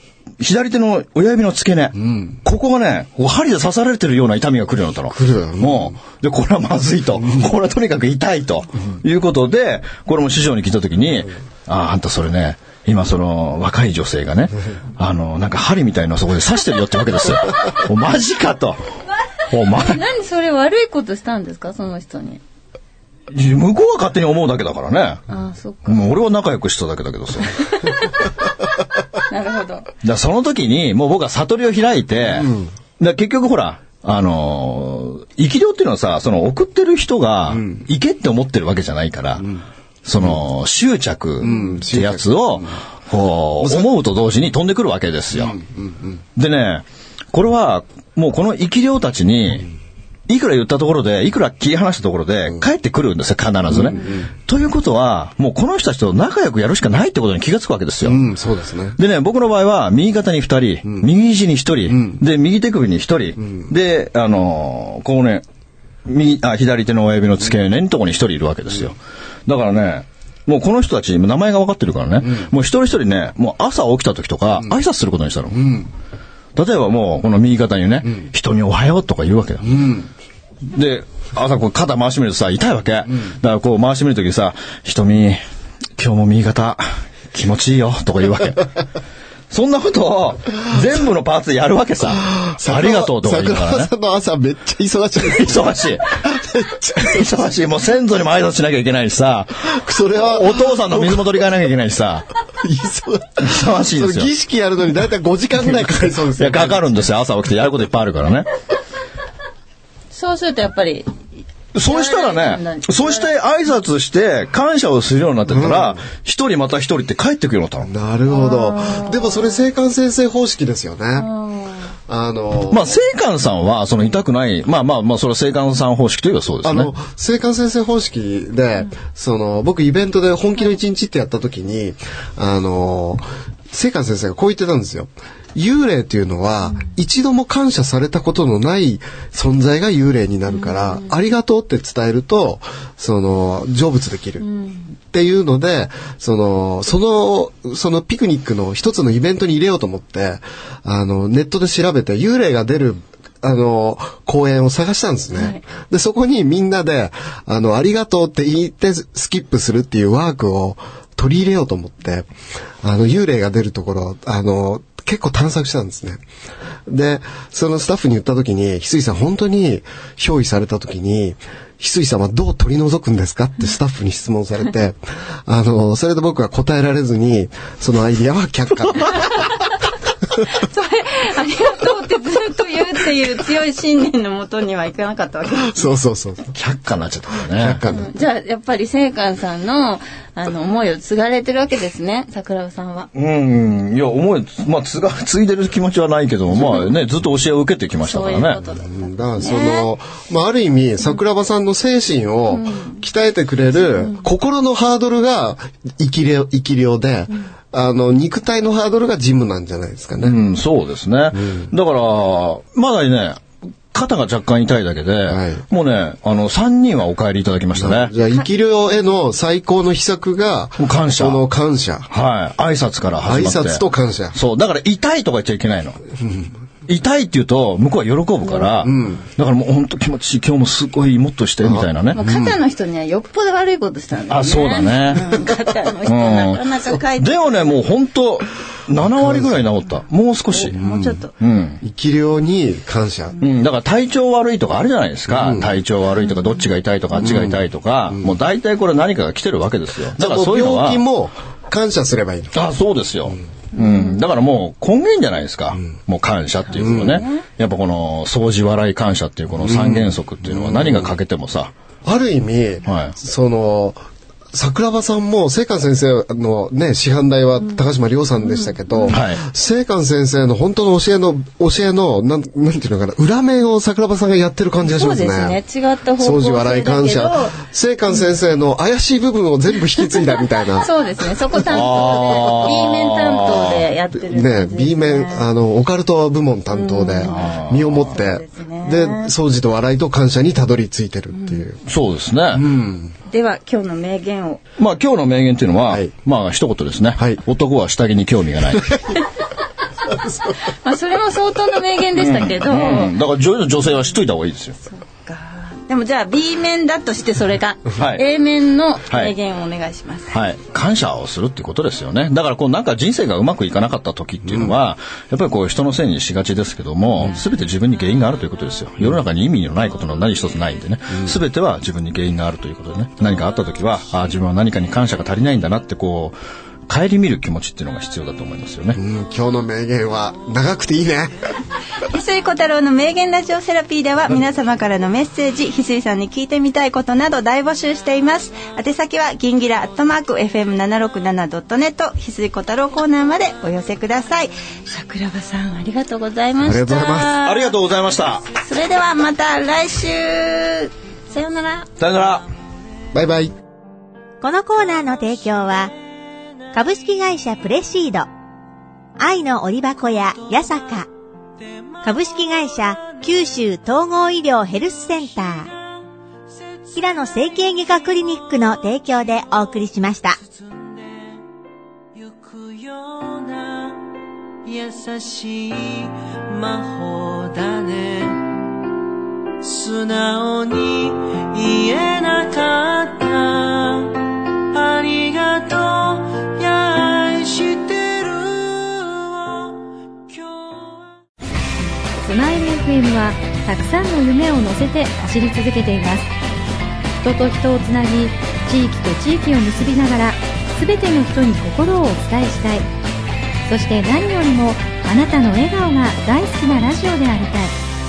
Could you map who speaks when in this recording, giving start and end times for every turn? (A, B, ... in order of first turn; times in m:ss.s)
0:00.4-0:18.8 A
0:05.1-0:06.0 B
0:19.5-0:20.0 A
0:19.6-0:22.4 C
0:23.3-0:25.2 A
0:25.3-0:26.2 C
0:25.9-0:27.5 A
0:27.8-0:28.1 C
0:29.3-0:29.9 C
0:30.0-0:39.5 A
0:32.4-0:32.7 B
0:37.5-0:37.8 B
0:40.0-0:45.6 A
0:41.4-0:42.8 B
0:41.4-0:41.8 C
0:43.6-0:43.9 B
0:45.3-0:46.2 B
0:46.4-0:49.7 A
0:50.3-0:58.3 A
0:53.7-0:54.3 B
0:58.0-0:59.0 B
0:59.0-1:05.4 A
1:01.9-1:02.2 B
1:06.1-1:15.8 A
1:12.2-1:12.5 B
1:15.5-1:15.9 B
1:16.6-1:19.7 A
1:19.6-1:20.1 B
1:20.6-1:25.4 A
1:26.0-1:28.8 A
1:29.5-1:33.9 A
1:32.2-1:37.3 B
1:35.2-1:36.1 A
1:37.0-1:42.3 A
1:39.7-1:41.3 B
1:42.6-1:46.9 B
1:43.4-1:44.3 A
1:46.4-1:48.5 A
1:50.1-1:51.1 C
1:51.7-1:57.9 A
1:51.8-1:53.3 C
1:55.5-1:56.0 B
1:57.8-2:01.3 B
1:58.3-1:59.5 C
2:01.2-2:01.9 C
2:02.1-2:02.9 B
2:02.7-2:06.9 A
2:06.6-2:24.5 B
2:20.6-2:21.0 C
2:24.4-2:24.9 C
2:25.1-2:42.3 B
2:35.4-2:35.6 C
2:42.8-2:46.2 B
2:46.9-2:59.3 B
3:00.4-3:05.9 C
3:05.6-3:06.5 B
3:06.5-3:07.8 A
3:07.5-3:08.1 B
3:07.9-3:13.1 C
3:13.1-3:18.6 A
3:16.6-3:16.9 C
3:18.0-3:19.9 C
3:18.8-3:30.4 B
3:22.5-3:23.1 C
3:23.8-3:24.2 C
3:30.2-3:38.1 A
3:31.3-3:31.7 B
3:35.3-3:35.6 B
3:37.8-3:42.1 B
3:40.8-3:41.4 A
3:42.1-3:46.0 A
3:43.2-3:44.4 B
3:46.2-3:46.5 B
3:46.9-3:52.2 A
3:48.8-3:49.2 B
3:51.6-3:52.6 B
3:52.1-3:57.8 C
3:54.3-3:55.4 A
3:56.0-3:56.6 A
3:57.2-4:00.8 A
3:59.2-3:59.5 B
4:00.5-4:01.3 C
4:00.8-4:01.2 B
4:01.4-4:01.8 A
4:01.8-4:03.4 B
4:03.4-4:11.0 A
4:05.3-4:05.7 B
4:07.2-4:07.6 B
4:10.2-4:12.6 B
4:12.5-4:21.7 A
4:13.8-4:14.2 C
4:16.8-4:17.2 B
4:16.8-4:17.4 C
4:19.6-4:21.1 B
4:22.0-4:24.0 B
4:22.9-4:23.2 A
4:24.5-4:35.6 B
4:28.4-4:29.2 C
4:29.1-4:29.4 A
4:34.8-4:37.6 C
4:36.2-4:40.9 B
4:40.8-4:45.5 C
4:41.6-4:43.9 A
4:41.8-4:42.7 B
4:44.2-4:51.8 B
4:46.7-4:49.3 C
4:47.2-4:48.1 A
4:51.3-4:51.7 C
4:51.8-4:52.6 A
4:52.5-4:53.2 B
4:53.3-4:54.6 C
4:54.8-4:58.9 A
5:00.8-5:03.1 C
5:02.2-5:04.8 A
5:04.8-5:10.4 C
5:08.0-5:08.2 A
5:10.3-5:26.4 A
5:26.9-5:29.0 A
5:29.0-5:31.4 B
5:32.1-5:47.8 C
5:46.6-5:47.4 B
5:47.4-5:48.4 A
5:48.5-5:51.9 C
5:52.0-5:52.5 A
5:53.1-5:53.5 B
5:54.4-5:55.9 D
5:56.7-5:58.3 D
5:59.2-6:01.1 D
6:02.0-6:05.7 D
6:07.0-6:10.4 D
6:15.4-6:16.1 E
6:16.9-6:18.3 E
6:19.8-6:24.2 E
6:24.8-6:29.0 E
6:32.2-6:36.3 F
6:37.2-6:42.8 F
6:43.7-6:47.7 F